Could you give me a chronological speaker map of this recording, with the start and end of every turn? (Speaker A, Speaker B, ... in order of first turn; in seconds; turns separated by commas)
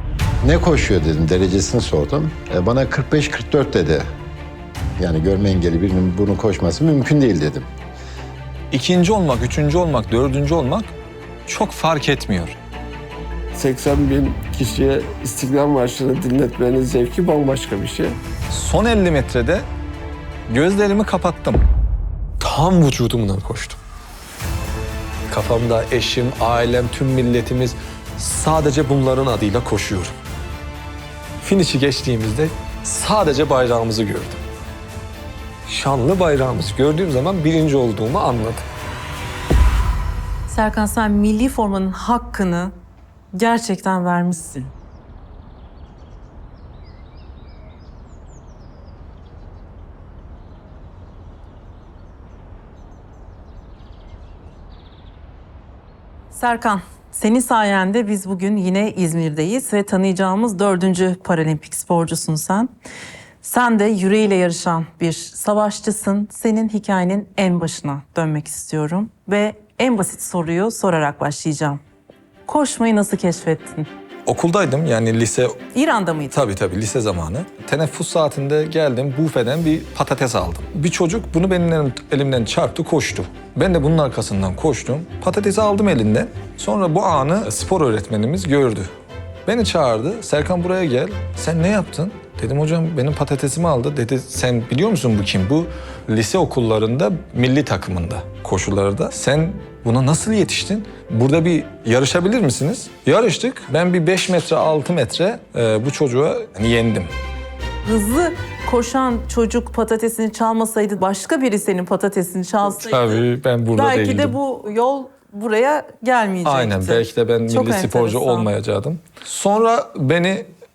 Speaker A: 0.4-4.1, Speaker A: 5.0-7.7, Speaker B: 8.7-10.9, Speaker B: 11.5-12.6, Speaker C: 13.5-18.2, Speaker B: 18.5-19.7, Speaker B: 20.5-21.6, Speaker B: 22.4-23.8, Speaker B: 25.3-30.1, Speaker B: 31.4-34.4, Speaker B: 35.7-38.7, Speaker D: 40.5-42.8, Speaker D: 43.3-44.7, Speaker D: 56.3-62.7, Speaker D: 63.4-71.8, Speaker D: 72.5-73.9, Speaker B: 74.3-75.6, Speaker D: 75.7-76.4, Speaker B: 76.3-88.9, Speaker B: 89.5-107.1, Speaker D: 107.8-118.5, Speaker B: 112.8-114.4, Speaker B: 116.5-120.5